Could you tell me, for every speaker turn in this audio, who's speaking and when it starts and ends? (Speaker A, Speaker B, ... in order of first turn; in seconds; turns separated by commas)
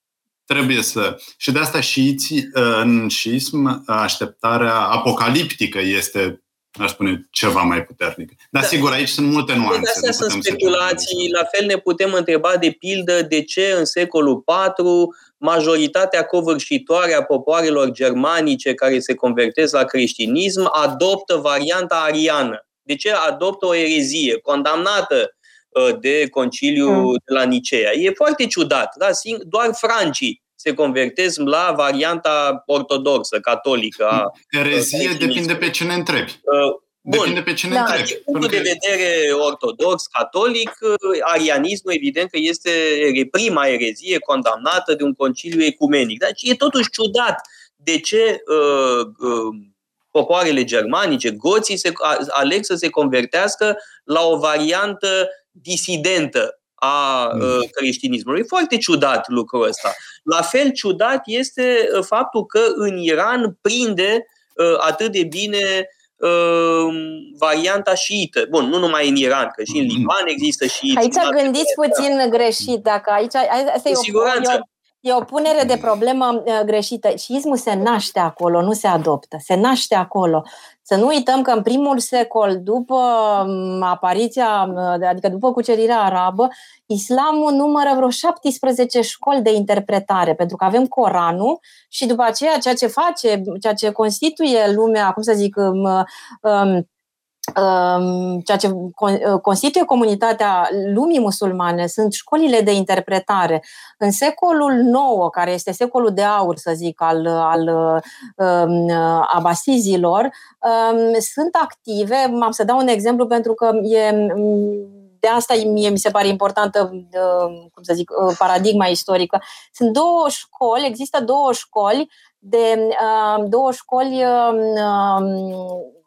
Speaker A: 0.5-11.3, Speaker B: 8.6-8.8, Speaker B: 9.7-35.7, Speaker A: 34.4-36.4, Speaker B: 36.5-72.0, Speaker A: 37.0-38.7, Speaker A: 69.7-70.1, Speaker C: 70.9-96.8, Speaker B: 73.9-74.6, Speaker C: 97.5-125.9